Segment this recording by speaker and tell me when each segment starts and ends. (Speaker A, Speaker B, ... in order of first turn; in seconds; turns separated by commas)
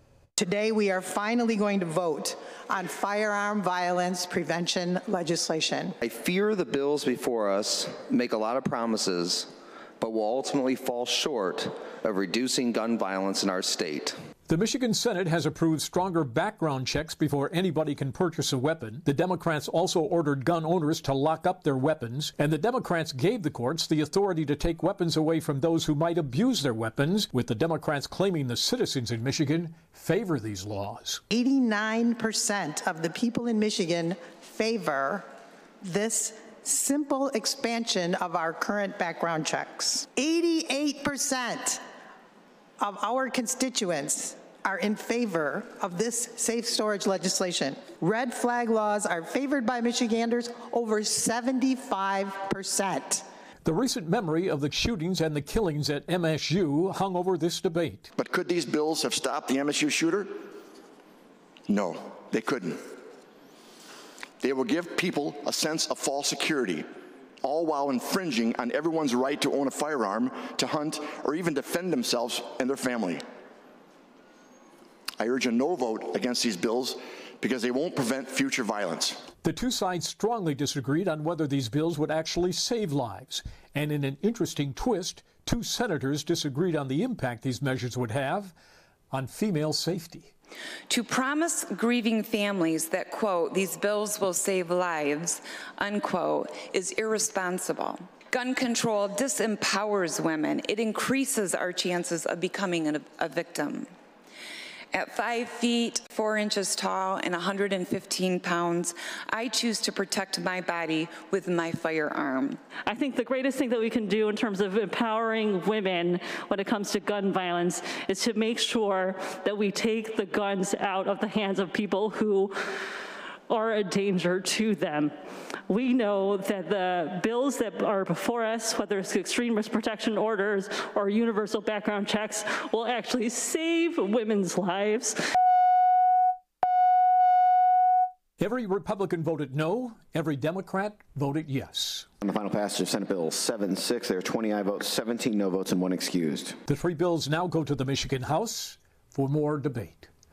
Speaker A: 0.4-5.9, Speaker B: 6.0-14.2, Speaker C: 14.5-31.2, Speaker A: 31.3-35.3, Speaker A: 35.8-41.8, Speaker A: 42.8-53.2, Speaker C: 53.6-58.1, Speaker D: 58.2-60.3, Speaker D: 61.7-62.8, Speaker D: 64.4-66.9, Speaker D: 67.4-73.2, Speaker D: 75.2-79.2, Speaker C: 79.4-88.5, Speaker C: 89.1-90.3, Speaker E: 90.9-103.9, Speaker E: 104.9-112.6, Speaker F: 113.0-122.4, Speaker F: 123.5-125.1, Speaker F: 125.7-135.1, Speaker C: 138.4-142.1, Speaker G: 142.2-146.6, Speaker C: 146.7-150.1